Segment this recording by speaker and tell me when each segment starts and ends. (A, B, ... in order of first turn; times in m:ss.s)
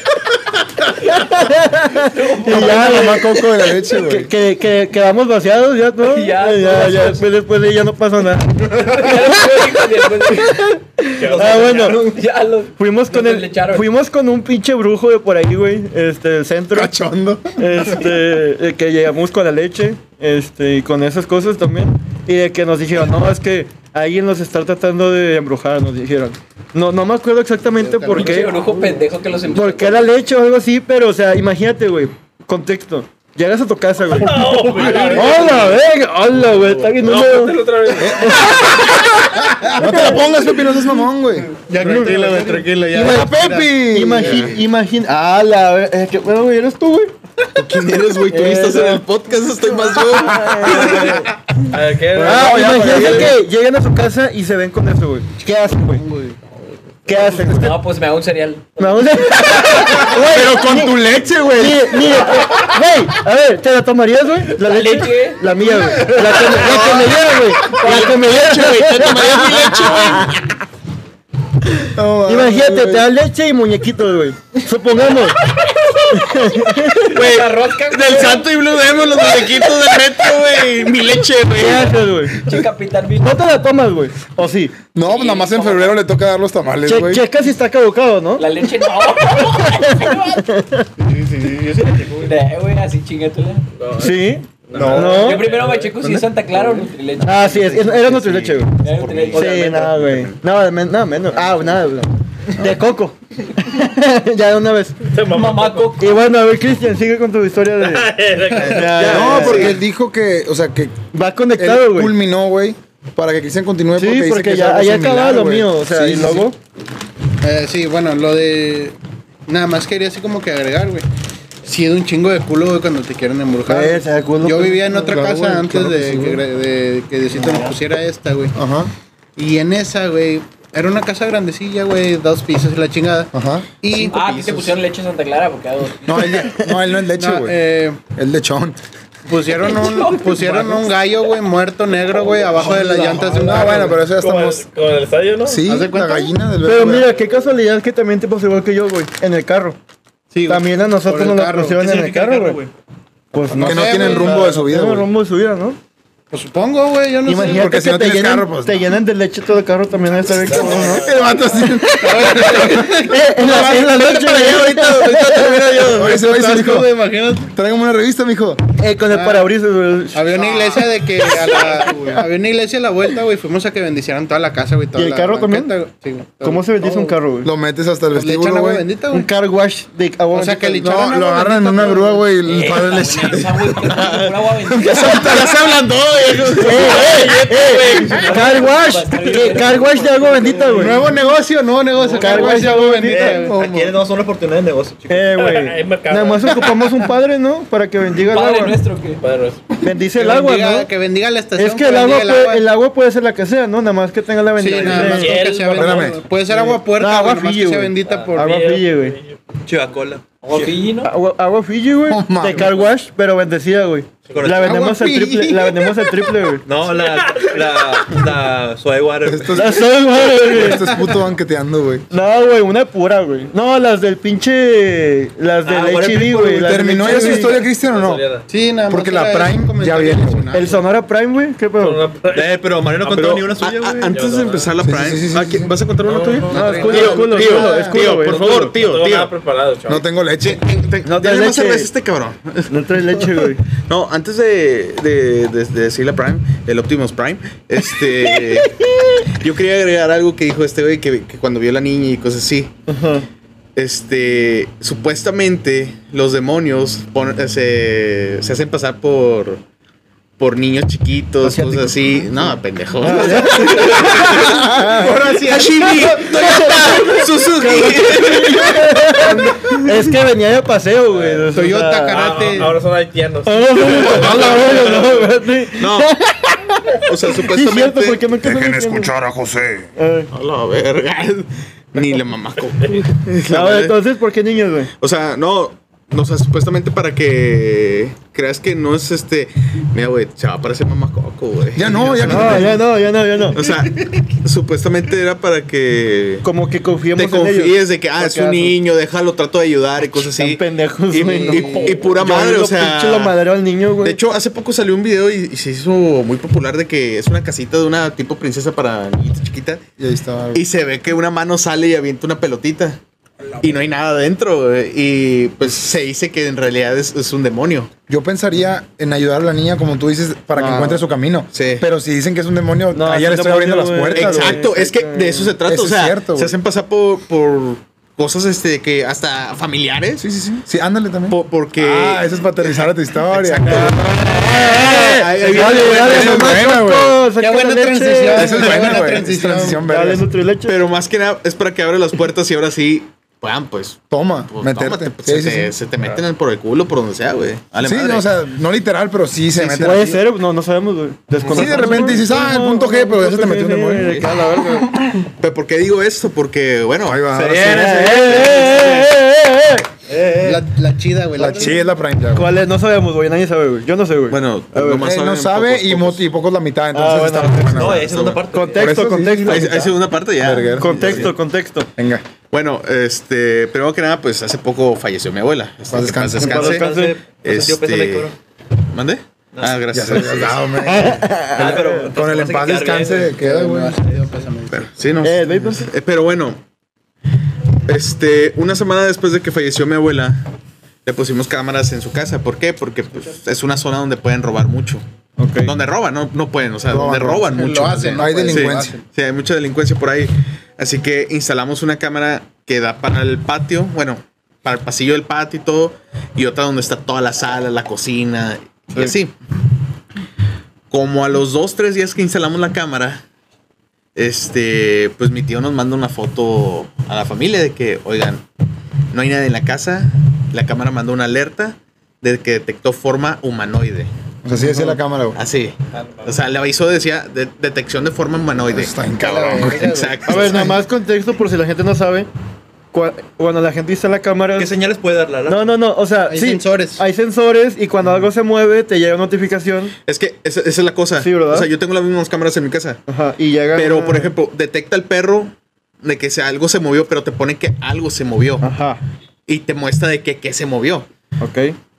0:01.0-0:12.2 A
0:01.9-0:03.2 B
0:02.5-0:04.3 C
0:06.0-0:07.3 B
0:08.7-0:10.7 B
0:11.2-0:12.0 D
0:11.2-0:12.2 E
0:11.4-0:13.9 B
0:12.8-0:16.9 A
0:16.7-0:17.8 C
0:17.6-0:28.9 A
0:27.7-0:28.9 F
0:28.1-0:30.1 B
0:29.5-0:40.3 A
0:34.2-0:35.7 D
0:34.7-0:35.4 B
0:35.1-0:35.8 C
0:36.8-0:38.5 D
0:37.9-0:39.1 C
0:39.5-0:40.0 F
0:39.6-0:41.5 C
0:41.6-0:44.4 F
0:41.8-0:42.7 D
0:41.8-0:42.2 A
0:42.9-0:44.6 C
0:43.0-0:47.1 A
0:47.6-0:51.0 G
0:47.6-0:48.0 C
0:48.3-0:49.0 A
0:50.0-0:51.3 A
0:50.6-0:53.3 D
0:52.1-0:53.4 C
0:52.2-0:56.0 A
0:55.8-0:56.4 F
0:57.1-0:57.8 A
0:57.2-0:59.7 B
0:58.8-1:10.3 A
0:59.5-1:02.4 C
1:04.6-1:07.0 B
1:06.6-1:06.9 G
1:06.6-1:07.0 C
1:07.7-1:08.3 B
1:07.8-1:10.4 G
1:09.5-1:09.7 C
1:11.9-1:13.1 C
1:12.2-1:15.4 A
1:16.1-1:17.2 A
1:17.0-1:20.0 B
1:17.1-1:22.0 G
1:21.5-1:22.4 A
1:22.4-1:23.4 B
1:23.2-1:24.8 A
1:25.0-1:27.2 C
1:25.0-1:26.0 B
1:26.8-1:28.7 A
1:28.4-1:30.5 B
1:29.3-1:30.9 A
1:31.3-1:32.1 D
1:32.1-1:33.6 B
1:33.8-1:36.0 D
1:34.0-1:35.5 A
1:35.0-1:38.2 B
1:37.2-1:38.7 A
1:38.1-1:40.4 G
1:38.8-1:39.8 B
1:39.3-1:45.1 A
1:39.3-1:39.8 E
1:41.5-1:41.9 F
1:45.1-1:45.9 D
1:45.2-1:46.1 B
1:46.0-1:49.8 A
1:47.8-1:49.7 D
1:48.8-1:49.4 E
1:49.0-1:51.0 C
1:49.3-1:49.7 G
1:51.1-1:52.2 A
1:51.6-1:56.5 C
1:54.0-1:56.6 A
1:57.4-1:59.0 F
1:59.5-2:01.1 F
2:01.6-2:08.6 F
2:03.7-2:05.2 A
2:05.0-2:06.4 C
2:08.6-2:08.9 C
2:09.4-2:14.8 F
2:13.3-2:13.7 C
2:14.0-2:16.5 B
2:16.1-2:17.6 C
2:17.0-2:18.0 F
2:18.1-2:18.8 C
2:19.3-2:24.1 F
2:19.6-2:20.8 B
2:22.6-2:24.7 C
2:24.1-2:25.6 D
2:25.4-2:27.1 C
2:25.7-2:26.4 F
2:26.6-2:29.8 A
2:30.3-2:31.8 F
2:30.5-2:32.6 A
2:31.8-2:32.7 E
2:33.3-2:35.8 A
2:33.4-2:34.6 F
2:33.5-2:35.1 C
2:36.3-2:37.7 F
2:37.3-2:45.9 A
2:37.4-2:38.9 C
2:40.2-2:43.0 C
2:41.8-2:44.2 F
2:44.2-2:46.0 G
2:45.9-2:47.5 F
2:45.9-2:48.6 C
2:48.8-2:52.2 A
2:49.1-2:49.5 F
2:50.1-2:57.2 F
2:55.0-2:55.7 A
2:56.4-2:57.5 A
2:57.4-2:58.8 C
2:58.1-2:59.3 F
2:59.1-3:00.9 A
3:00.3-3:02.4 F
3:00.8-3:04.1 C
3:02.4-3:05.4 B
3:03.9-3:07.4 G
3:04.6-3:05.8 C
3:06.6-3:11.0 A
3:06.7-3:08.6 D
3:07.6-3:10.9 B
3:09.6-3:11.0 E
3:10.7-3:13.9 F
3:12.1-3:15.4 E
3:12.2-3:13.4 A
3:15.1-3:18.8 A
3:15.4-3:17.1 D
3:18.3-3:19.2 B
3:19.2-3:19.7 D
3:19.8-3:20.9 A
3:20.1-3:22.7 F
3:21.6-3:25.4 A
3:24.6-3:28.6 F
3:24.8-3:26.2 D
3:25.7-3:26.2 C
3:26.5-3:29.2 A
3:28.1-3:29.4 D
3:29.6-3:30.7 E
3:30.5-3:31.1 B
3:31.0-3:36.6 A
3:32.1-3:32.7 C
3:32.5-3:32.8 D
3:34.3-3:35.1 E
3:34.7-3:35.3 F
3:36.6-3:39.8 E
3:36.9-3:38.0 D
3:39.2-3:39.9 C
3:39.6-3:41.0 A
3:40.4-3:42.1 C
3:42.1-3:47.6 A
3:45.7-3:46.9 E
3:46.6-3:48.2 C
3:47.4-3:48.5 D
3:48.5-3:50.8 F
3:48.9-3:50.5 C
3:50.5-3:52.0 A
3:51.8-3:53.5 D
3:52.3-3:54.3 E
3:53.2-3:59.4 G
3:54.1-3:54.7 D
3:54.8-3:55.8 C
3:56.0-3:57.5 D
3:56.5-3:58.2 F
3:56.5-3:58.6 A
3:58.2-4:00.1 D
3:59.9-4:00.6 C
4:00.4-4:02.7 G
4:01.0-4:01.9 A
4:02.7-4:03.6 A
4:03.7-4:12.7 G
4:12.9-4:13.3 A
4:13.8-4:19.6 G
4:20.4-4:29.8 G
4:21.4-4:22.2 A
4:23.0-4:32.2 A
4:23.9-4:25.7 F
4:31.1-4:31.5 D
4:31.5-4:32.8 F
4:32.1-4:35.4 D
4:33.4-4:39.1 A
4:35.8-4:36.1 G
4:37.0-4:38.2 G
4:38.4-4:39.9 C
4:40.0-4:40.3 A
4:40.3-4:44.0 G
4:42.8-4:43.0 D
4:43.5-4:44.9 A
4:45.0-4:52.8 G
4:51.8-4:52.8 C
4:52.2-4:53.7 A
4:53.5-4:56.5 G
4:56.4-4:58.8 A
4:57.1-5:03.4 G
5:00.4-5:04.2 A
5:01.5-5:02.1 F
5:04.0-5:09.8 G
5:10.0-5:10.6 C
5:10.5-5:13.0 G
5:13.6-5:17.9 G
5:18.1-5:24.6 C
5:20.6-5:21.0 A
5:21.5-5:21.9 G
5:22.9-5:25.5 A
5:24.1-5:30.2 G
5:25.6-5:26.6 C
5:30.2-5:34.1 C
5:31.3-5:32.3 G
5:33.3-5:36.7 G
5:33.7-5:40.8 A
5:35.5-5:37.2 C
5:37.4-5:39.8 F
5:38.3-5:40.3 C
5:40.7-5:48.3 G
5:44.1-5:45.7 C
5:47.8-5:50.2 C
5:49.6-5:49.9 G
5:49.8-5:55.0 A
5:51.4-5:52.2 G
5:51.5-5:54.2 C
5:55.3-5:59.1 G
5:57.0-5:57.8 C
5:57.5-5:59.9 A
5:58.4-5:58.8 E
6:00.1-6:00.7 E
6:00.4-6:01.9 F
6:01.4-6:02.5 C
6:02.3-6:05.0 A
6:04.3-6:06.2 G
6:05.0-6:08.1 C
6:06.9-6:08.0 A
6:07.8-6:09.0 E
6:07.8-6:08.5 G
6:08.5-6:09.9 A
6:08.7-6:11.3 C
6:09.4-6:11.4 G
6:10.7-6:11.9 A
6:12.0-6:12.2 C
6:12.5-6:16.9 G
6:15.9-6:16.7 C
6:16.4-6:17.2 A
6:16.4-6:18.4 E
6:17.4-6:18.3 G
6:18.9-6:20.8 G
6:19.6-6:19.8 E
6:19.9-6:24.0 C
6:20.8-6:22.1 A
6:21.5-6:23.4 E
6:23.3-6:25.0 F
6:24.7-6:26.6 G
6:25.2-6:25.9 A
6:27.9-6:30.4 G
6:31.0-6:35.0 G
6:35.4-6:35.8 A
6:35.6-6:49.3 G
6:36.9-6:37.5 C
6:37.4-6:39.0 F
6:38.2-6:38.9 C
6:50.9-6:53.2 G
6:54.2-6:58.4 G
6:59.1-7:04.1 G
7:04.4-7:05.4 C
7:04.5-7:05.0 A
7:05.4-7:10.8 G
7:06.0-7:06.3 D
7:08.7-7:10.0 C
7:09.1-7:10.5 F
7:10.3-7:12.3 A
7:12.9-7:14.7 A
7:14.6-7:15.6 E
7:15.5-7:19.9 A
7:16.3-7:17.0 F
7:20.1-7:23.0 G
7:21.2-7:21.7 A
7:23.1-7:24.3 A
7:23.7-7:28.7 G
7:28.6-7:29.0 A
7:29.5-7:31.1 G
7:31.4-7:31.8 A